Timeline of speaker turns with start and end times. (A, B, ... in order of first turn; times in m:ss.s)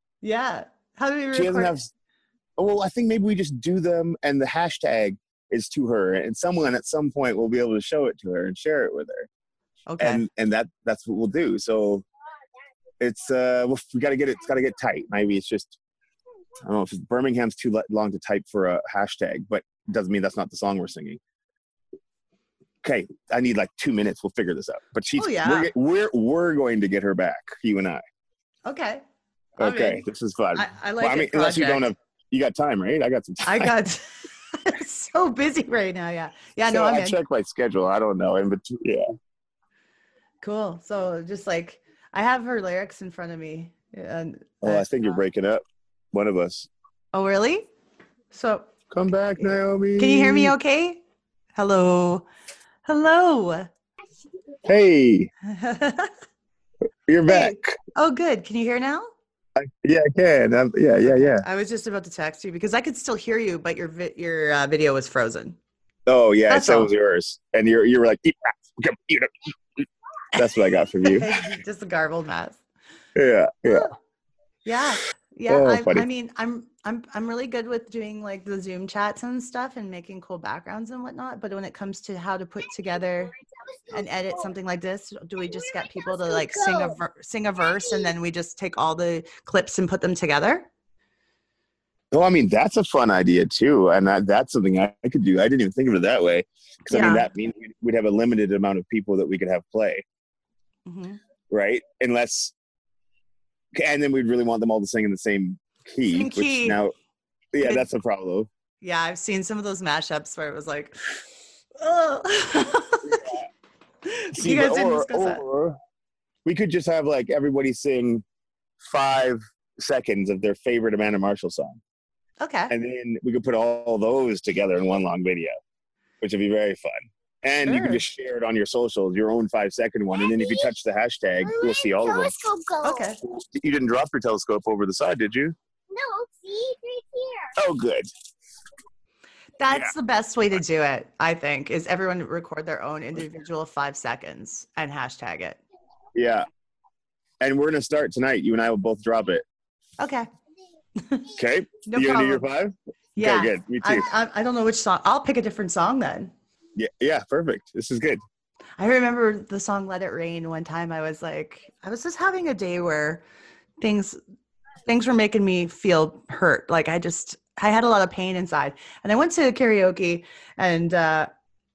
0:00.2-0:01.7 A
0:01.3-0:01.9 B
0:02.6-0:09.3 B
0:09.9-0:10.2 A
0:10.0-0:12.1 B
0:13.0-0:15.8 B
0:16.6-0:21.2 B
0:22.8-0:28.0 B
0:25.2-0:25.7 A
0:28.6-0:29.0 A
0:29.6-0:33.7 B
0:29.6-0:30.0 A
0:30.6-0:31.9 A
0:33.4-0:37.2 A
0:36.6-0:39.1 B
0:40.4-0:45.1 A
0:44.6-0:46.7 B
0:47.1-0:47.7 A
0:48.3-0:48.7 A
0:48.9-0:50.6 B
0:50.0-0:51.0 A
0:51.6-0:52.3 A
0:52.9-0:53.7 A
0:54.6-0:55.3 B
0:55.4-0:56.1 A
0:57.1-0:57.8 B
0:57.3-0:59.1 A
0:59.6-1:01.5 B
1:01.0-1:05.6 A
1:06.1-1:09.5 B
1:06.5-1:06.9 A
1:10.3-1:11.4 B
1:11.0-1:12.6 A
1:13.2-1:13.9 B
1:14.6-1:23.3 A
1:15.5-1:16.1 B
1:23.9-1:30.7 A
1:32.1-1:40.0 B
1:36.9-1:37.3 A
1:40.9-1:41.2 A
1:41.5-1:42.5 B
1:43.8-1:46.9 B
1:46.1-1:46.8 A
1:47.5-1:48.5 B
1:48.8-1:51.0 A
1:51.8-1:53.3 A
1:53.1-1:53.4 B
1:54.0-1:55.4 A
1:54.4-1:55.8 B
1:56.4-1:58.2 B
1:58.8-2:01.8 B
2:02.4-2:02.7 A
2:02.7-2:05.5 B
2:06.2-2:15.6 B
2:07.6-2:08.0 A
2:12.8-2:13.2 A
2:17.5-2:18.1 B
2:19.6-2:25.6 A
2:26.1-2:26.5 B
2:27.4-2:29.4 B
2:30.0-2:30.3 A
2:31.0-2:31.3 A
2:31.4-2:34.1 B
2:31.9-2:32.5 A
2:33.2-2:36.3 A
2:36.8-2:38.2 B
2:38.8-2:43.2 A
2:43.8-2:44.2 A
2:44.9-2:51.3 A